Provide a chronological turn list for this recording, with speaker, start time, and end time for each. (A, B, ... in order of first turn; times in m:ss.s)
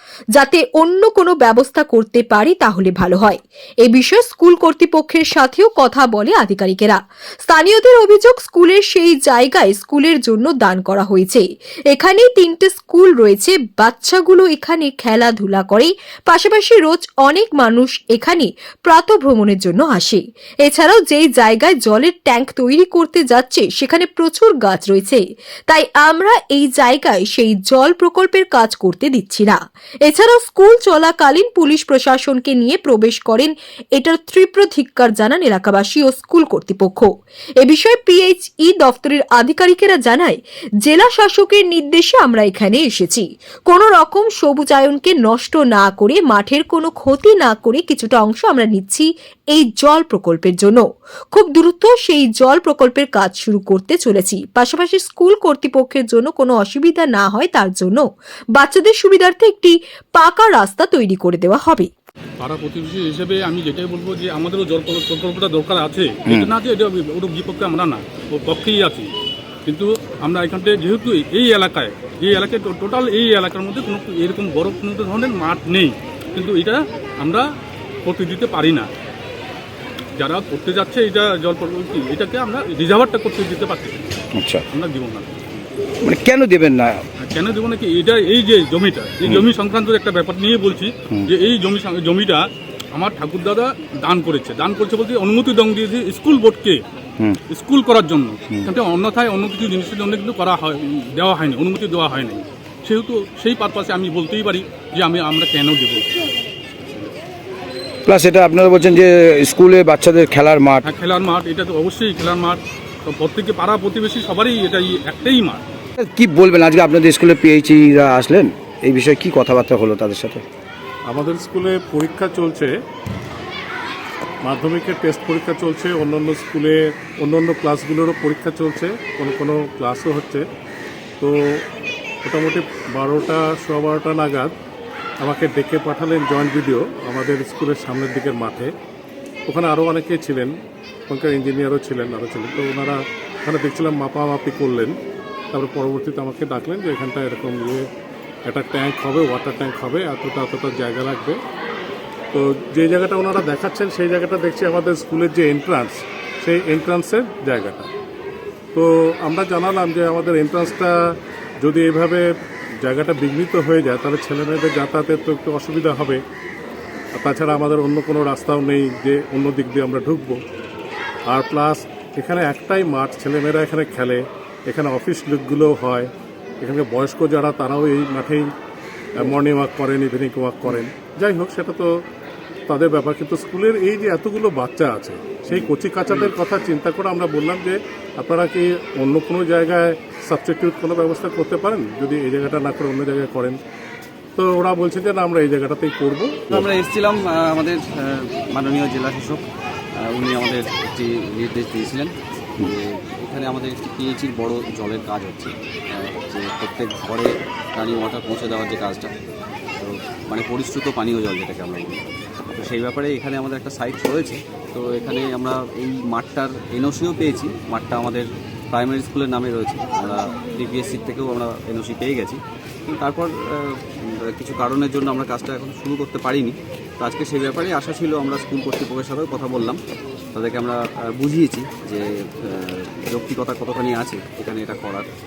0:00.3-0:37.1 A
0:37.6-1:01.9 A
1:02.4-1:09.1 B
1:09.6-1:17.5 B
1:18.0-1:18.9 B
1:20.2-1:24.1 B
1:24.3-1:24.6 C
1:24.7-1:25.3 B
1:26.0-1:27.0 C
1:27.2-1:36.8 B
1:37.5-1:46.2 B
1:48.0-1:50.8 C
1:50.8-1:55.6 B
1:56.0-2:00.4 C
2:01.0-2:02.7 D
2:04.4-2:10.4 D
2:11.2-2:11.6 D
2:12.2-2:14.5 D
2:15.2-2:18.7 D
2:19.5-2:20.5 D
2:21.1-2:25.0 D
2:25.5-2:27.9 D
2:28.4-2:31.4 D
2:32.3-2:37.9 D
2:38.7-2:42.3 D
2:42.8-2:46.2 D
2:47.1-2:50.4 D
2:51.3-2:56.1 D
2:56.6-2:58.5 D
2:59.2-3:01.9 D
3:02.7-3:13.6 D
3:14.4-3:16.7 D
3:16.7-3:19.4 E
3:20.0-3:22.1 E
3:22.7-3:29.1 E
3:29.8-3:32.0 E
3:32.6-3:49.8 E
3:50.3-3:55.0 E